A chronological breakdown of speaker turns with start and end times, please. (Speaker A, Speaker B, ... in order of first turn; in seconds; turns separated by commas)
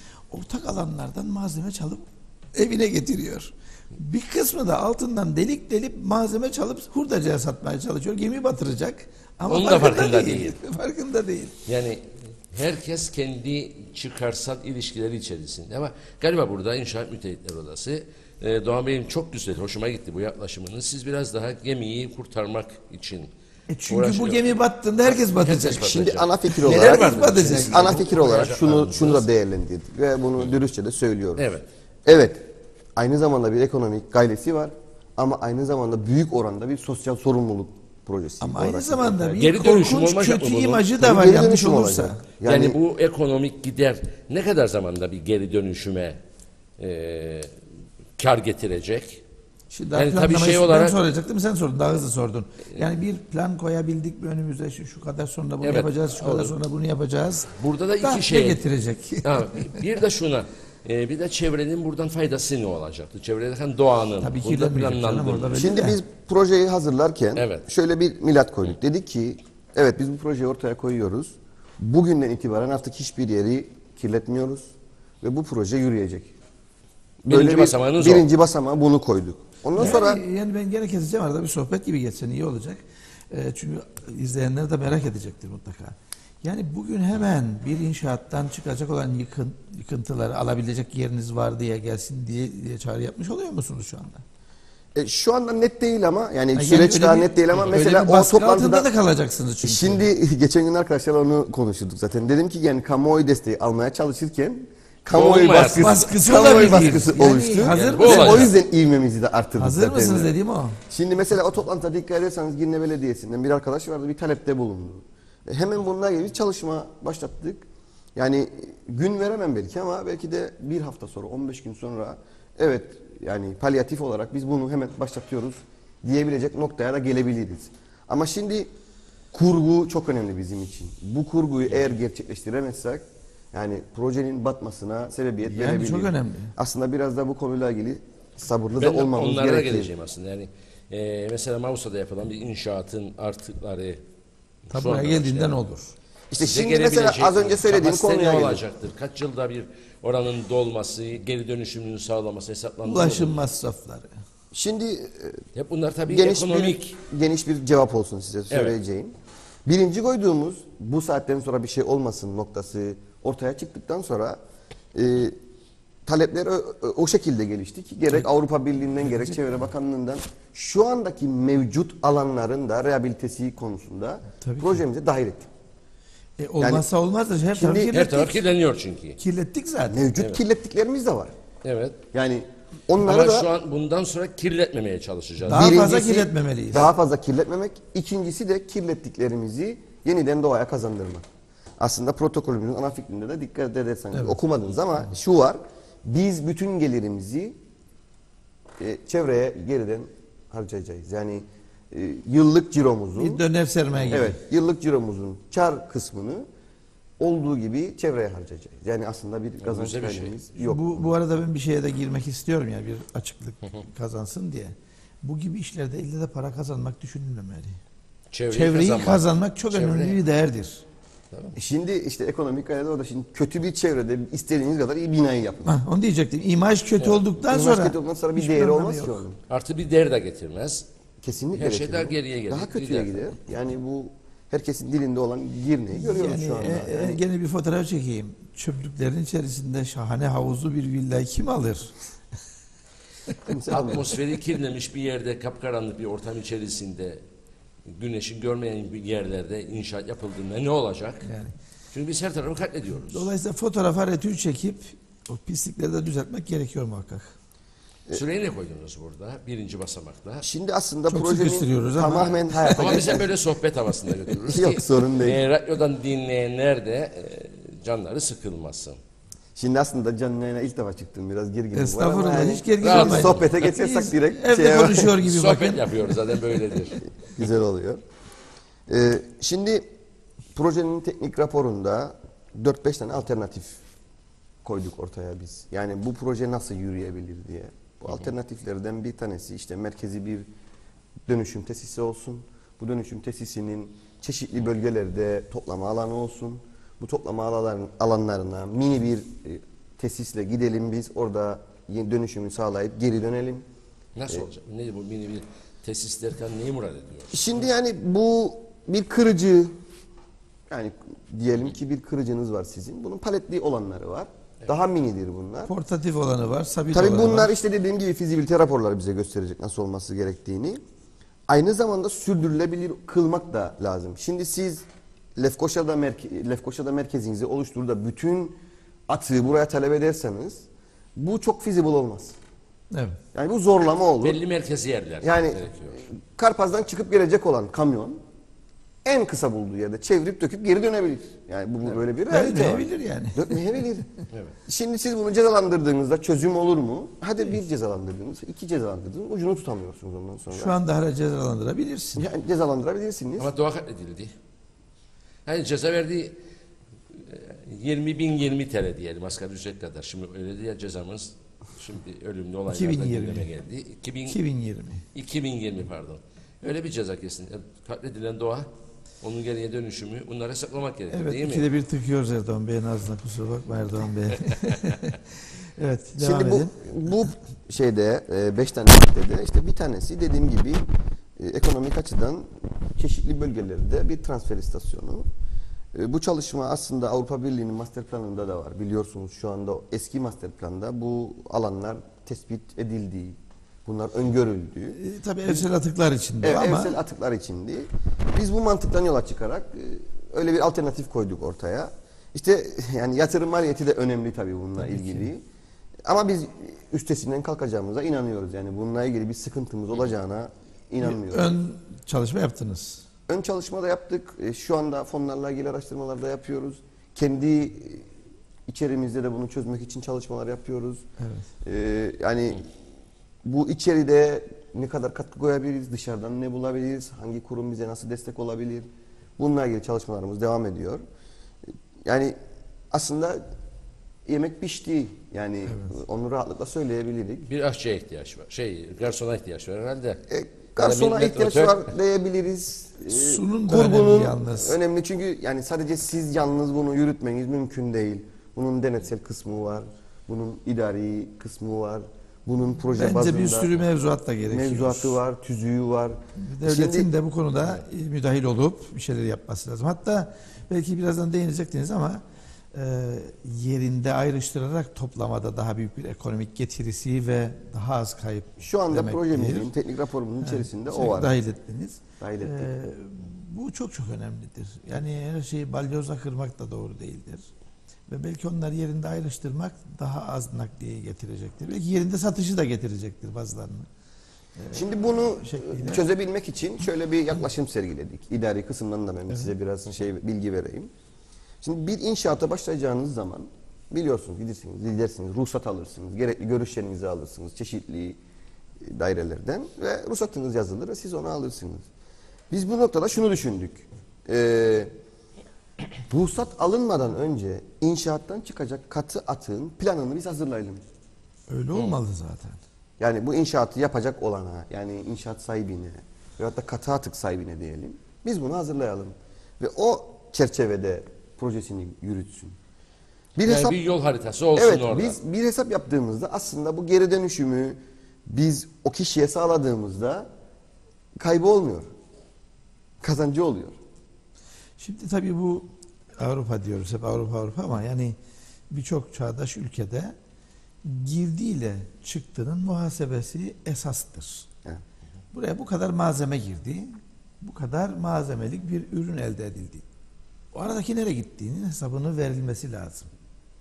Speaker A: 0.3-11.6, Speaker B: 9.5-10.6, Speaker B: 11.7-23.3, Speaker A: 23.7-25.9, Speaker B: 23.9-29.3, Speaker C: 25.7-31.5, Speaker A: 26.5-27.9, Speaker B: 31.4-31.7, Speaker C: 32.1-39.3, Speaker A: 38.4-42.2, Speaker B: 39.3-40.9, Speaker C: 41.0-42.8, Speaker B: 42.5-46.2, Speaker B: 46.8-47.5, Speaker B: 48.2-49.2, Speaker A: 49.7-59.8, Speaker B: 49.9-51.0, Speaker B: 55.6-56.5, Speaker B: 57.6-58.6, Speaker B: 59.2-65.7, Speaker A: 64.2-66.0, Speaker C: 65.5-76.3, Speaker B: 67.4-67.7, Speaker C: 77.2-80.2, Speaker B: 77.3-78.3, Speaker A: 79.8-94.2, Speaker C: 95.0-98.9, Speaker A: 96.5-100.0, Speaker C: 99.6-110.3, Speaker B: 105.1-108.6, Speaker A: 105.7-108.5, Speaker A: 109.6-110.8, Speaker C: 110.9-117.7, Speaker C: 118.2-128.7, Speaker C: 129.3-139.9, Speaker A: 135.4-136.5, Speaker B: 138.8-144.0, Speaker A: 144.7-145.9, Speaker B: 144.7-145.6, Speaker C: 146.3-148.6, Speaker B: 146.4-153.4, Speaker A: 152.8-154.1, Speaker C: 154.5-155.4, Speaker B: 155.6-156.9, Speaker C: 156.1-164.4, Speaker B: 158.5-158.8, Speaker C: 164.9-165.4, Speaker C: 166.1-175.5, Speaker A: 174.4-174.8, Speaker A: 176.4-178.4, Speaker C: 176.6-176.9, Speaker C: 177.5-178.1, Speaker B: 177.9-179.2, Speaker A: 179.2-180.1, Speaker C: 179.9-181.3, Speaker B: 181.6-182.0, Speaker C: 182.1-183.5, Speaker B: 183.0-185.8, Speaker A: 185.5-186.9, Speaker C: 185.5-191.2, Speaker C: 191.8-197.6, Speaker A: 194.1-194.4, Speaker C: 198.8-203.4, Speaker A: 203.2-204.4, Speaker B: 203.9-204.3, Speaker C: 204.1-206.5, Speaker C: 207.2-211.1, Speaker B: 209.7-210.5, Speaker A: 210.6-217.8, Speaker B: 218.3-220.2, Speaker A: 218.5-220.8, Speaker C: 221.6-225.8, Speaker A: 225.7-229.2, Speaker C: 227.4-229.4, Speaker B: 229.5-230.9, Speaker C: 231.2-237.2, Speaker B: 231.6-233.2, Speaker A: 235.9-241.9, Speaker C: 243.5-244.1, Speaker B: 243.7-247.2, Speaker B: 247.9-251.3, Speaker A: 251.2-251.5, Speaker B: 251.9-253.3, Speaker A: 253.0-257.4, Speaker B: 258.1-260.5, Speaker C: 260.4-263.3, Speaker A: 261.1-263.1, Speaker B: 262.7-269.0, Speaker C: 264.3-265.4, Speaker C: 269.6-275.2, Speaker A: 271.7-276.0, Speaker B: 272.8-273.6, Speaker B: 275.2-277.0, Speaker C: 277.2-278.0, Speaker C: 278.9-279.8, Speaker C: 280.5-283.8, Speaker C: 284.6-290.5, Speaker C: 291.3-303.7, Speaker B: 304.2-307.5, Speaker C: 307.3-309.8, Speaker C: 310.7-315.7, Speaker A: 315.7-317.5, Speaker C: 316.9-320.8, Speaker C: 321.5-324.9, Speaker C: 325.4-332.4, Speaker A: 332.9-333.2, Speaker C: 333.3-334.4, Speaker B: 334.2-336.0, Speaker C: 335.2-338.2, Speaker C: 339.1-344.1, Speaker A: 342.3-343.6, Speaker C: 344.7-350.8, Speaker A: 350.5-352.3, Speaker C: 352.2-353.5, Speaker B: 353.4-354.3, Speaker B: 355.5-356.4, Speaker B: 357.1-364.4, Speaker A: 362.7-363.5, Speaker A: 364.3-365.1, Speaker B: 365.1-368.7, Speaker B: 369.2-371.7, Speaker A: 371.1-376.7, Speaker C: 376.2-380.9, Speaker C: 381.4-385.3, Speaker C: 385.9-395.6, Speaker A: 395.0-397.0, Speaker C: 396.4-405.4, Speaker A: 404.8-405.3, Speaker C: 406.1-411.6, Speaker A: 411.0-413.1, Speaker C: 413.3-418.1, Speaker C: 418.7-421.1, Speaker A: 421.2-421.4, Speaker C: 421.6-422.6, Speaker C: 423.4-431.0, Speaker C: 432.1-432.4, Speaker C: 432.9-433.4, Speaker C: 434.3-437.5, Speaker A: 435.7-435.9, Speaker B: 437.5-440.2, Speaker C: 440.3-453.7, Speaker B: 440.8-441.9, Speaker A: 443.1-444.8, Speaker A: 452.9-455.2, Speaker C: 454.5-457.1, Speaker A: 456.4-469.7, Speaker C: 468.6-471.4, Speaker A: 470.4-477.5, Speaker C: 472.2-472.7, Speaker A: 478.1-483.9, Speaker A: 484.6-486.1, Speaker C: 484.7-490.9, Speaker C: 491.6-498.2, Speaker C: 498.8-501.9, Speaker C: 502.5-504.9, Speaker C: 506.1-510.8, Speaker A: 511.5-512.6, Speaker C: 513.0-522.6, Speaker C: 523.4-523.8, Speaker B: 523.5-525.2, Speaker C: 524.5-530.3, Speaker C: 531.2-531.9, Speaker C: 533.0-533.8, Speaker A: 534.8-538.2, Speaker A: 538.7-540.1, Speaker A: 540.8-544.5, Speaker A: 545.3-549.8, Speaker A: 550.5-553.1